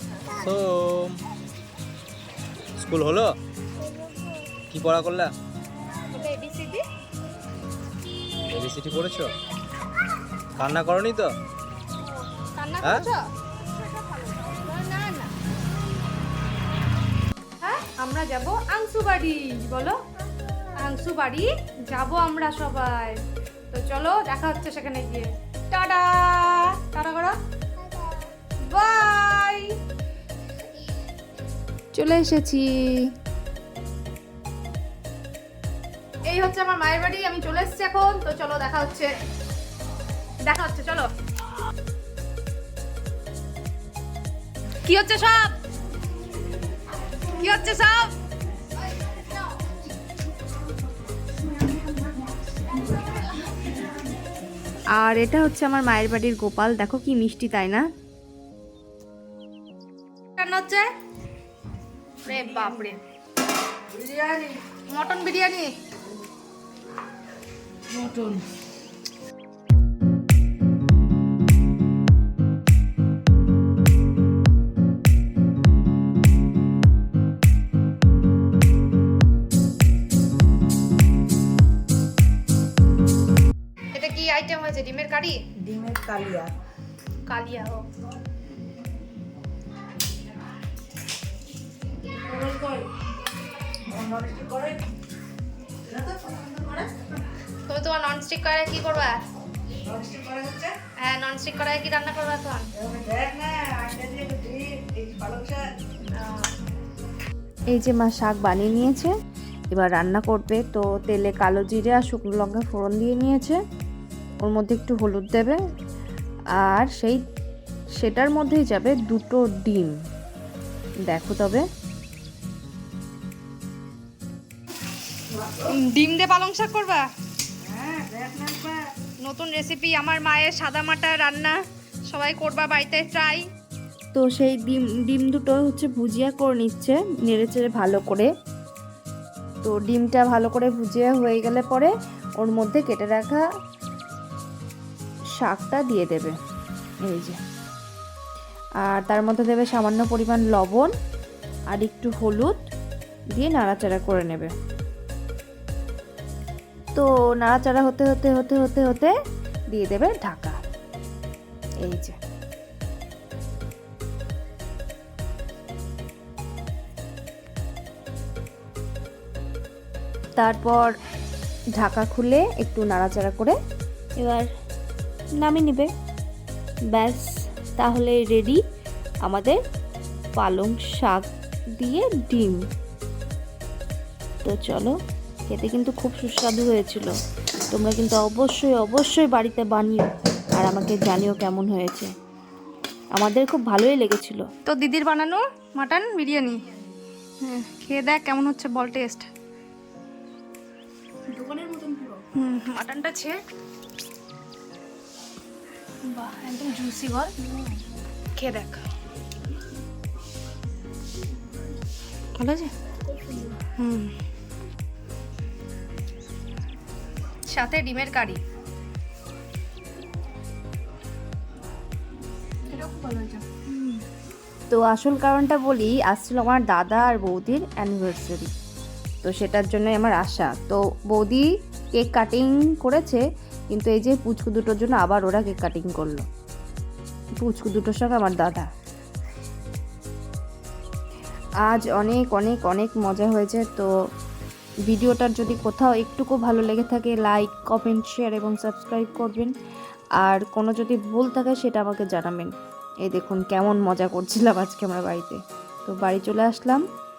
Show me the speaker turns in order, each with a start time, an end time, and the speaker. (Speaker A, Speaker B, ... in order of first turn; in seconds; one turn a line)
Speaker A: 0.3-1.2
Speaker A: 2.8-3.4
Speaker A: 4.7-5.3
Speaker B: 6.0-6.8
Speaker A: 8.4-9.3
Speaker A: 10.6-11.3
Speaker B: 12.5-13.2
Speaker A: 12.8-13.1
Speaker B: 14.1-15.3
Speaker B: 17.6-20.0
Speaker B: 20.7-23.2
Speaker B: 23.7-27.4
Speaker B: 28.6-29.7
Speaker C: 31.9-32.5
Speaker B: 32.0-33.0
Speaker B: 36.3-39.1
Speaker B: 40.5-41.1
Speaker B: 44.8-45.5
Speaker B: 47.4-48.1
Speaker C: 54.9-57.9
Speaker B: 60.4-60.9
Speaker B: 62.2-63.0
Speaker D: 64.1-64.5
Speaker B: 64.8-65.7
Speaker B: 68.0-68.3
Speaker B: 83.9-85.4
Speaker D: 85.6-86.5
Speaker B: 87.2-87.8
Speaker B: 92.2-92.8
Speaker D: 93.9-94.8
Speaker D: 95.9-96.8
Speaker B: 97.7-99.2
Speaker D: 99.8-100.7
Speaker B: 100.9-102.7
Speaker D: 102.8-105.7
Speaker B: 106.1-106.5
Speaker C: 107.7-109.1
Speaker C: 109.7-113.6
Speaker C: 114.4-115.6
Speaker C: 116.5-117.2
Speaker C: 118.0-120.0
Speaker C: 121.0-121.6
Speaker B: 125.6-127.0
Speaker D: 127.7-128.7
Speaker B: 129.2-133.4
Speaker C: 134.1-138.3
Speaker C: 139.6-143.4
Speaker C: 145.3-146.3
Speaker C: 147.0-147.4
Speaker C: 148.8-150.9
Speaker C: 151.7-152.7
Speaker C: 153.3-154.5
Speaker C: 156.9-159.1
Speaker C: 159.7-160.6
Speaker C: 161.8-162.2
Speaker C: 170.4-170.9
Speaker C: 171.8-173.6
Speaker C: 174.2-174.5
Speaker C: 175.4-175.9
Speaker C: 176.9-178.6
Speaker C: 179.2-179.6
Speaker C: 180.4-182.6
Speaker C: 184.4-184.9
Speaker C: 185.5-187.2
Speaker C: 187.7-192.1
Speaker C: 193.1-194.5
Speaker B: 194.6-196.6
Speaker B: 197.4-199.3
Speaker B: 201.3-203.3
Speaker B: 206.1-207.6
Speaker B: 208.3-208.8
Speaker B: 212.4-214.1
Speaker B: 217.5-218.4
Speaker B: 222.7-224.0
Speaker C: 224.7-228.5
Speaker C: 229.2-236.3
Speaker C: 237.4-238.7
Speaker C: 241.6-243.9
Speaker C: 244.9-249.5
Speaker C: 250.2-256.8